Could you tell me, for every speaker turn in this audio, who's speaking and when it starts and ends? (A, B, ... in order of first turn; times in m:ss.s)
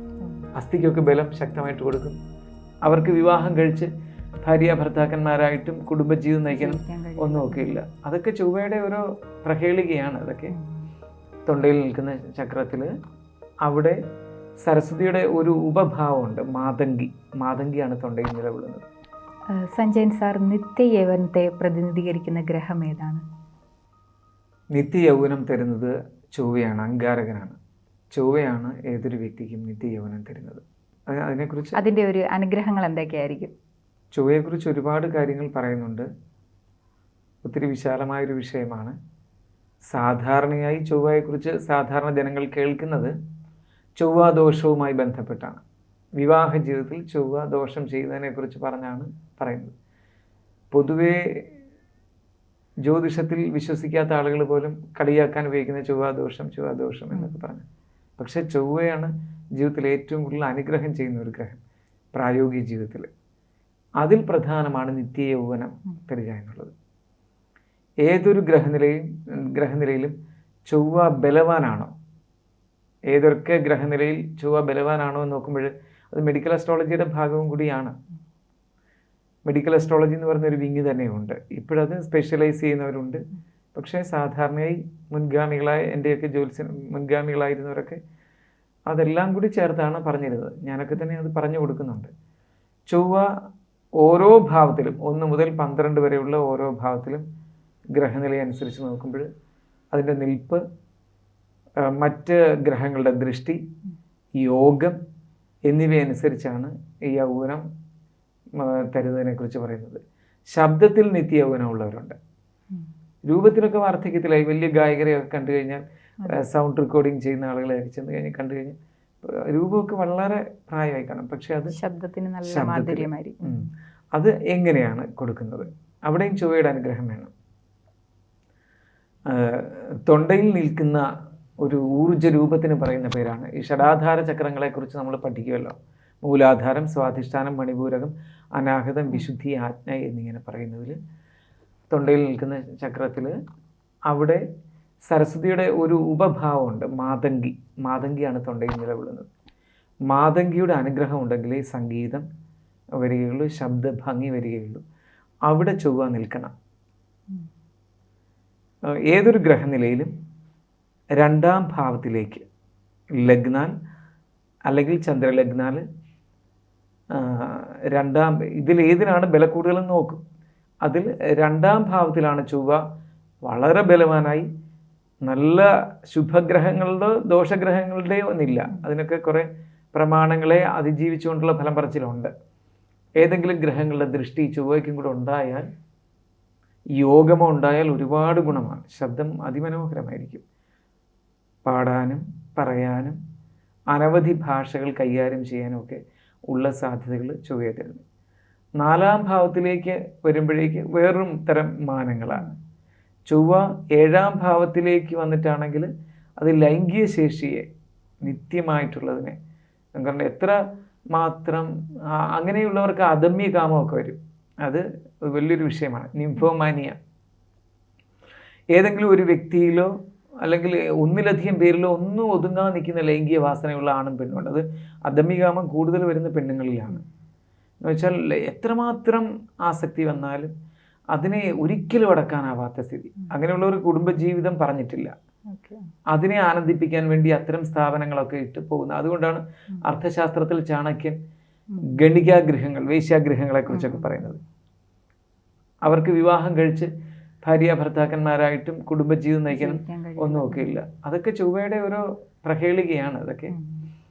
0:00.6-0:02.2 A
0:02.8-0:03.9 A
0:04.4-0:10.5 A
0:06.5-0:07.8 B
0:10.5-0:10.8 B
0:11.4-0:12.9 A
0:13.6-0:14.0 A
0:14.6-0:18.8 A
0:19.5-0:23.2 B
0:24.7-0:27.6 A
0:28.1-0:31.8 A
0:31.7-0:33.5 B
0:34.1-0:36.1 A
0:37.4-0:39.0 A
0:39.9-0:43.1 A
0:44.0-0:45.6 A
0:46.2-0:49.7 A
0:50.7-0:51.4 A
0:52.8-0:57.6 A
0:58.2-1:01.6 A
1:02.1-1:03.1 A
1:04.0-1:06.7 A
1:08.0-1:10.1 A
1:10.7-1:11.9 A
1:13.1-1:17.9 A
1:19.5-1:23.2 A
1:23.7-1:28.0 A
1:28.9-1:32.1 A
1:32.9-1:33.3 A
1:34.0-1:37.2 A
1:37.9-1:39.2 A
1:39.9-1:40.6 A
1:41.9-1:43.6 A
1:44.4-1:45.0 A
1:45.7-1:47.6 A
1:48.6-1:50.0 A
1:50.5-1:52.2 A
1:53.3-2:01.7 A
2:01.7-2:03.5 B
2:02.5-2:07.3 A
2:09.3-2:11.0 A
2:11.6-2:21.0 A
2:21.9-2:23.3 A
2:24.1-2:24.4 A
2:25.1-2:29.3 A
2:30.1-2:32.2 A
2:33.0-2:34.8 A
2:35.5-2:36.5 A
2:39.1-2:40.1 A
2:41.2-2:42.4 A
2:43.2-2:43.7 A
2:44.7-2:45.8 A
2:47.2-2:50.2 A
2:50.8-2:52.8 A
2:53.4-2:54.5 A
2:55.3-3:02.3 A
3:03.2-3:05.6 A
3:07.0-3:10.4 A
3:11.6-3:13.2 A
3:13.9-3:18.0 A
3:18.8-3:22.5 A
3:23.3-3:25.9 A
3:26.4-3:27.6 A
3:28.2-3:29.4 A
3:30.0-3:30.6 A
3:31.1-3:37.0 A
3:38.7-3:39.9 A
3:40.4-3:47.0 A
3:47.8-3:50.5 A
3:51.1-3:55.1 A
3:55.5-3:55.8 B
3:56.1-4:01.2 A
4:01.9-4:04.4 A
4:03.7-4:04.1 B
4:05.8-4:06.9 A
4:07.4-4:13.5 A
4:09.5-4:10.7 B
4:13.5-4:13.8 B